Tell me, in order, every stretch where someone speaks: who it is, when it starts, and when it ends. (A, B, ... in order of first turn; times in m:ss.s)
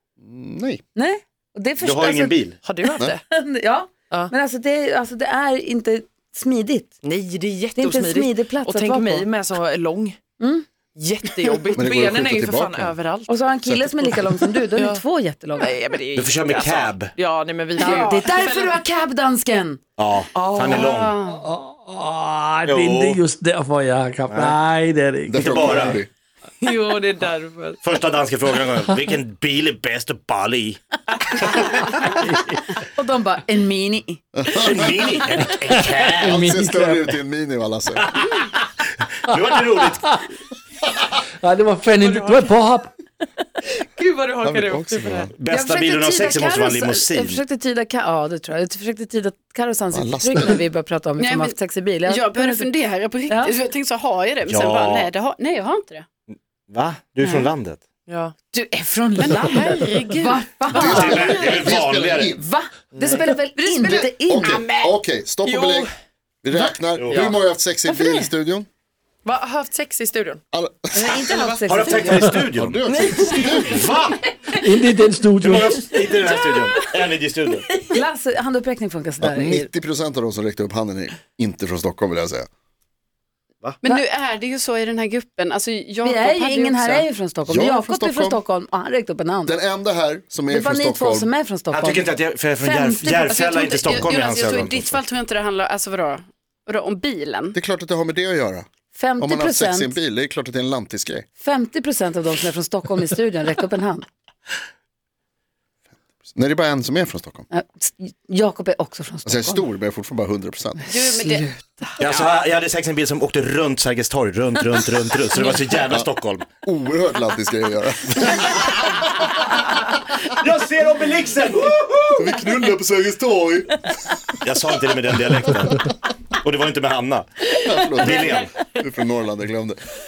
0:00.2-0:00.8 A
0:00.9-0:06.9 B
0:01.8-0:02.6 C
0:02.6-0:03.2 D
0:07.0-0:10.2 D
0:07.8-0:09.3 B
0:10.4-0:10.7 B
0:10.9-0:15.0 D
0:11.7-0:12.9 A
0:13.3-0:15.8 B
0:15.6-0:18.8 D
0:16.1-0:17.1 C
0:17.8-0:18.2 E
0:17.8-0:19.8 B
0:20.0-0:21.2 C
0:20.4-0:20.6 D
0:20.6-0:21.5 E
0:21.4-0:25.9 F
0:22.6-0:23.2 C
0:24.2-0:24.6 C
0:25.2-0:26.1 A
0:25.3-0:26.0 C
0:26.6-0:27.8 D
0:27.8-0:31.5 C
0:32.8-0:34.2 B
0:34.3-0:35.4 A
0:34.5-0:36.4 C
0:36.2-0:38.2 A
0:36.2-0:37.0 F
0:38.1-0:40.2 C
0:41.4-0:42.9 F
0:41.9-0:42.6 D
0:43.8-0:45.3 D
0:44.4-0:45.3 A
0:45.4-0:47.4 C
0:45.5-0:52.7 B
0:49.9-0:50.6 A
0:51.2-0:51.5 E
0:52.0-0:56.0 E
0:54.4-0:55.1 C
0:56.3-0:57.8 C
0:57.2-0:57.5 E
0:58.1-0:58.3 D
0:58.5-1:01.4 B
0:59.2-1:00.4 E
0:59.3-0:59.8 D
1:00.7-1:02.4 A
1:00.9-1:02.3 C
1:02.3-1:04.6 B
1:02.9-1:03.9 D
1:03.8-1:05.9 A
1:04.0-1:04.9 E
1:05.4-1:05.9 D
1:06.4-1:08.7 A
1:07.0-1:07.3 C
1:07.9-1:08.2 D
1:09.2-1:10.4 D
1:10.5-1:11.3 A
1:10.9-1:12.3 B
1:11.1-1:11.8 D
1:11.7-1:12.8 C
1:12.5-1:13.8 A
1:12.8-1:13.9 D
1:13.6-1:14.2 C
1:14.5-1:15.9 F
1:15.4-1:17.6 C
1:17.9-1:19.7 B
1:19.2-1:22.5 A
1:23.8-1:27.0 E
1:26.0-1:29.6 B
1:27.4-1:28.4 A
1:29.4-1:31.3 A
1:30.5-1:34.1 B
1:31.7-1:35.0 C
1:33.2-1:37.6 E
1:37.5-1:38.6 A
1:38.9-1:40.0 B
1:39.2-1:41.2 A
1:41.4-1:44.0 B
1:46.3-1:47.4 A
1:47.5-1:49.6 B
1:49.2-1:50.9 A
1:50.9-1:52.2 E
1:51.2-1:51.5 B
1:52.0-1:56.4 C
1:56.6-1:59.0 A
2:00.3-2:02.4 C
2:02.2-2:04.2 A
2:04.4-2:08.5 C
2:07.6-2:09.8 A